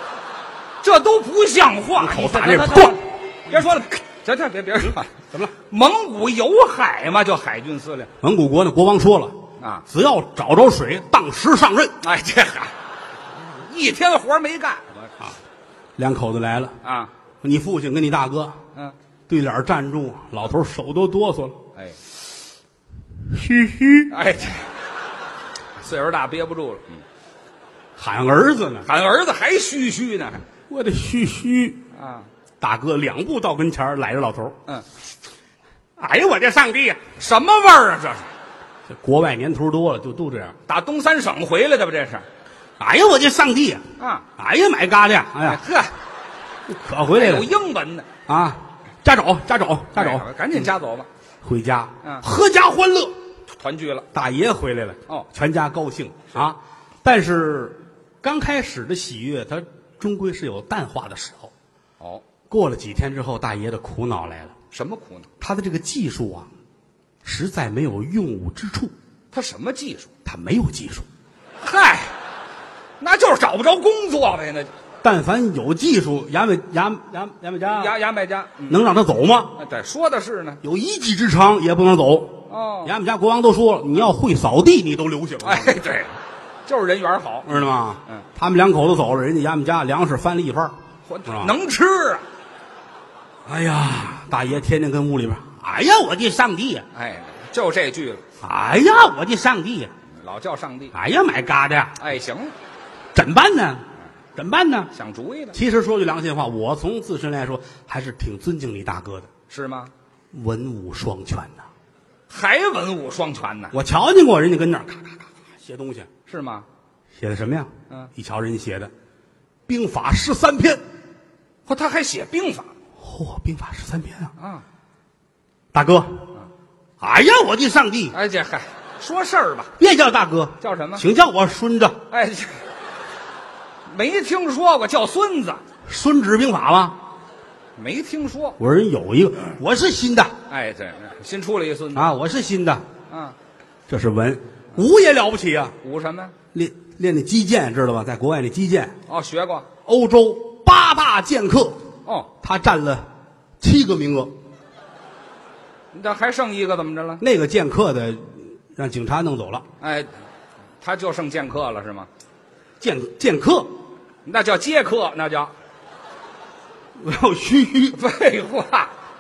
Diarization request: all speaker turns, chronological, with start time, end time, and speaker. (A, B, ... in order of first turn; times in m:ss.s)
0:00.8-0:08.1 A
0:02.0-0:03.1 B
0:04.8-0:05.5 B
0:08.2-0:09.4 B
0:09.6-0:09.8 A
0:09.9-0:12.0 B
0:12.0-0:12.7 A
0:13.4-0:15.1 A
0:16.0-0:16.8 B
0:16.8-0:17.1 A
0:17.4-0:18.6 B
0:19.3-0:21.6 B
0:23.3-0:24.1 B
0:24.1-0:24.7 A
0:25.8-0:27.0 A
0:28.0-0:28.9 B
0:28.8-0:30.4 A
0:30.7-0:31.8 B
0:31.9-0:32.3 A
0:32.6-0:34.6 B
0:36.0-0:37.0 B
0:37.2-0:38.3 A
0:38.9-0:40.6 B
0:40.7-0:42.3 A
0:42.8-0:43.8 B
0:44.0-0:44.3 A
0:44.4-0:45.6 B
0:45.4-0:45.9 A
0:46.7-0:47.5 B
0:47.1-0:48.1 A
0:48.3-0:50.3 B
0:50.0-0:51.1 A
0:51.4-0:53.2 B
0:53.5-0:54.1 A
0:54.1-1:01.5 B
1:02.5-1:04.6 B
1:04.7-1:05.3 A
1:05.4-1:06.5 B
1:07.2-1:08.9 B
1:09.3-1:10.1 A
1:10.2-1:11.1 B
1:11.6-1:12.1 A
1:13.0-1:14.7 A
1:15.0-1:17.9 B
1:17.6-1:18.8 A
1:18.7-1:19.6 B
1:19.6-1:20.6 A
1:20.6-1:25.8 B
1:22.5-1:23.0 A
1:25.4-1:26.1 A
1:26.7-1:27.5 A
1:27.5-1:30.8 B
1:31.1-1:32.2 A
1:31.3-1:31.6 B
1:33.5-1:36.9 B
1:36.9-1:38.2 A
1:38.4-1:39.9 B
1:40.1-1:40.9 A
1:40.9-1:42.0 B
1:42.0-1:42.5 A
1:43.2-1:43.8 B
1:44.4-1:44.9 B
1:44.9-1:45.6 A
1:45.5-1:49.3 B
1:49.5-1:49.9 A
1:50.3-1:51.6 B
1:52.3-1:53.8 A
1:53.7-1:56.1 B
1:56.3-1:56.7 A
1:57.2-1:58.9 B
1:59.7-2:00.8 B
2:01.7-2:02.7 A
2:03.0-2:04.3 B
2:04.4-2:04.6 A
2:05.7-2:06.3 B
2:07.0-2:08.1 B
2:08.1-2:09.7 A
2:09.8-2:12.0 B
2:10.6-2:11.1 A
2:12.1-2:12.6 A
2:13.9-2:15.6 A
2:15.9-2:17.0 B
2:17.8-2:18.6 A
2:18.6-2:20.4 B
2:20.5-2:22.0 A
2:21.9-2:22.8 B
2:23.1-2:23.4 A
2:23.9-2:25.8 B
2:25.8-2:26.4 A
2:26.5-2:29.0 B
2:29.1-2:29.7 A
2:29.9-2:31.8 B
2:32.0-2:32.3 A
2:32.4-2:33.1 B
2:33.6-2:34.3 B
2:35.9-2:37.2 A
2:37.2-2:39.6 B
2:39.8-2:40.1 A
2:40.8-2:42.1 A
2:42.8-2:43.7 B
2:44.2-2:45.5 A
2:47.0-2:48.0 B
2:47.9-2:48.9 A